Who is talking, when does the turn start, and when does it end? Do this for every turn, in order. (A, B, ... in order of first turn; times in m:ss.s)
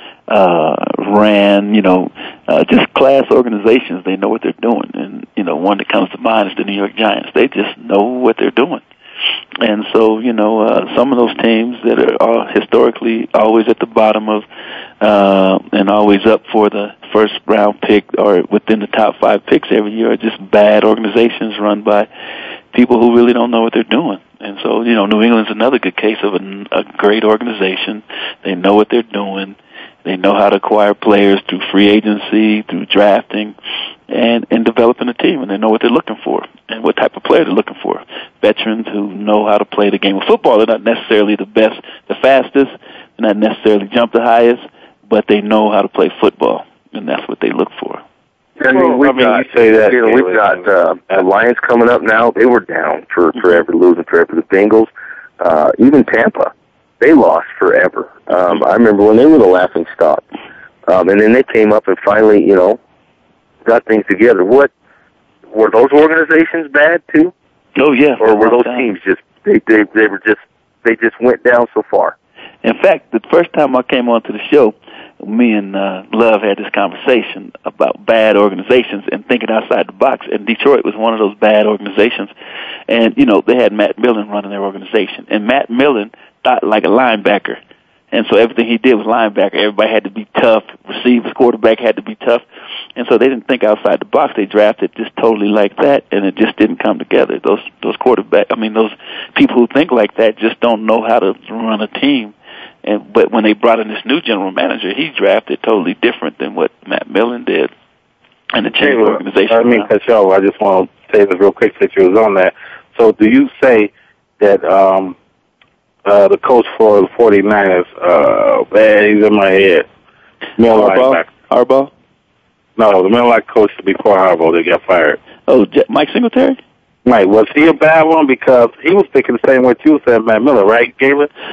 0:00.3-0:08.8 A
0:09.6-0:14.4 A
0:15.0-0:22.1 A
0:22.7-0:33.5 A
0:34.1-0:48.0 A
0:48.6-1:00.2 B
0:48.6-0:51.2 C
1:00.9-1:02.8 B
1:03.6-1:04.7 B
1:05.5-1:07.3 B
1:07.8-1:08.9 A
1:08.2-1:12.1 B
1:12.6-1:22.3 A
1:22.9-1:27.6 A
1:28.1-1:32.4 A
1:33.0-1:47.7 A
1:48.5-1:49.9 A
1:48.8-1:55.2 C
1:56.0-1:59.8 C
2:00.6-2:01.3 C
2:00.7-2:01.9 A
2:02.8-2:05.2 C
2:05.5-2:06.6 A
2:07.0-2:11.3 C